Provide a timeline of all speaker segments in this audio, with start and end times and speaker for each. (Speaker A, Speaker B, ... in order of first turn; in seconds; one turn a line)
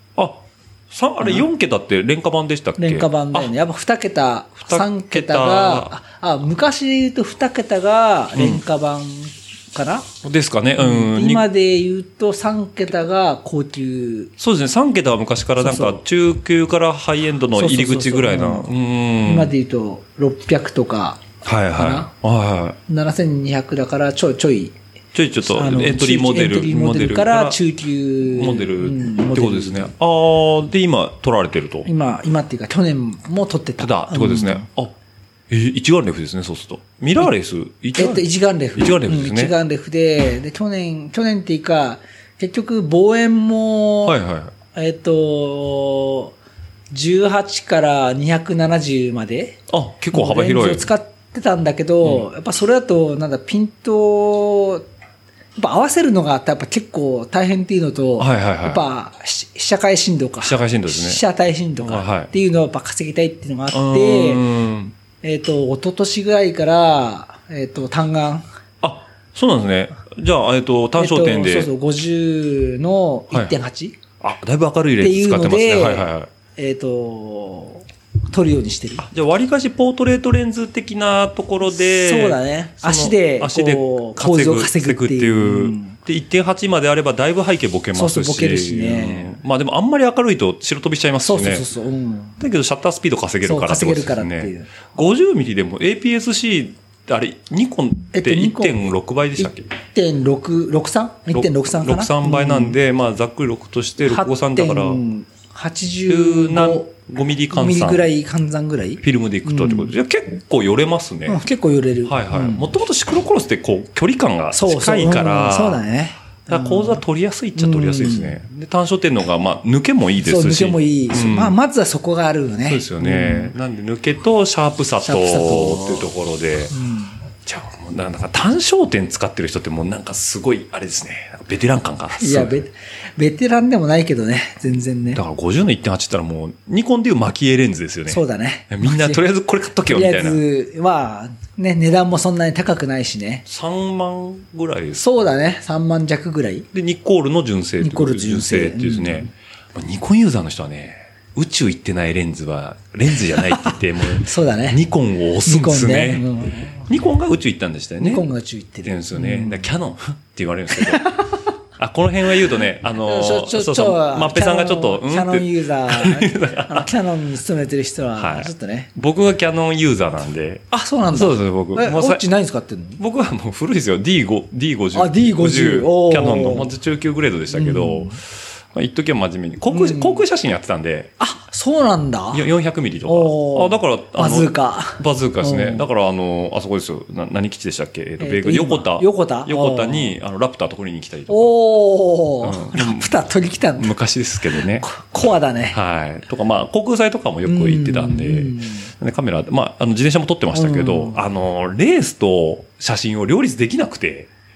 Speaker A: 0.1-3.5
Speaker B: 2.8-10.1
Speaker A: 4.6-6.0
Speaker A: 8.3-8.6
Speaker A: 10.2-11.5
Speaker B: 10.8-14.3
Speaker A: 14.4-19.5
Speaker B: 15.6-16.0
Speaker B: 17.5-22.1
Speaker A: 21.4-22.8
Speaker B: 22.9-24.8
Speaker A: 25.1-27.6
Speaker B: 25.4-29.9
Speaker A: 28.2-31.9
Speaker B: 31.8-34.7
Speaker A: 33.8-34.9
Speaker A: 35.5-39.5
Speaker B: 38.0-44.2
Speaker A: 44.0-44.5
Speaker B: 44.7-46.3
Speaker B: 46.9-49.6
Speaker A: 49.7-50.9
Speaker B: 50.1-54.8
Speaker B: 55.6-64.4
Speaker A: 58.2-58.8
Speaker A: 60.4-61.2
Speaker A: 61.8-62.3
Speaker A: 63.7-64.9
Speaker B: 65.2-68.5
Speaker A: 68.8-71.7
Speaker B: 71.0-74.0
Speaker A: 74.2-76.3
Speaker B: 75.0-79.0
Speaker A: 79.0-91.7
Speaker B: 81.7-86.0
Speaker B: 87.9-89.4
Speaker B: 91.2-92.4
Speaker A: 92.4-99.7
Speaker B: 93.4-94.7
Speaker B: 98.1-98.8
Speaker B: 99.4-102.8
Speaker A: 101.3-105.0
Speaker B: 104.1-106.9
Speaker A: 106.1-108.1
Speaker B: 107.5-109.9
Speaker A: 109.0-111.4
Speaker B: 111.3-112.7
Speaker A: 112.0-115.8
Speaker B: 114.5-117.0
Speaker A: 116.5-121.5
Speaker B: 117.5-118.4
Speaker B: 120.2-123.5
Speaker A: 122.7-126.7
Speaker B: 125.0-126.1
Speaker B: 126.7-127.2
Speaker A: 127.5-132.5
Speaker B: 132.2-135.2
Speaker A: 135.1-140.4
Speaker B: 138.1-139.2
Speaker B: 139.9-143.4
Speaker A: 143.4-145.0
Speaker B: 144.9-146.7
Speaker A: 146.7-158.2
Speaker B: 147.8-149.3
Speaker B: 153.4-154.8
Speaker B: 155.4-156.8
Speaker B: 158.0-159.7
Speaker A: 158.8-161.1
Speaker B: 160.7-161.4
Speaker A: 161.8-166.9
Speaker B: 163.0-168.9
Speaker A: 168.2-172.2
Speaker B: 170.7-173.0
Speaker A: 173.0-178.2
Speaker B: 174.9-176.7
Speaker B: 177.5-178.2
Speaker A: 178.7-181.1
Speaker B: 179.7-180.2
Speaker B: 181.2-182.4
Speaker A: 182.3-191.5
Speaker B: 183.1-185.9
Speaker B: 188.2-190.2
Speaker B: 191.3-193.9
Speaker A: 192.4-193.2
Speaker A: 193.8-194.9
Speaker B: 194.5-195.8
Speaker A: 195.7-204.3
Speaker B: 197.4-198.9
Speaker B: 200.5-201.2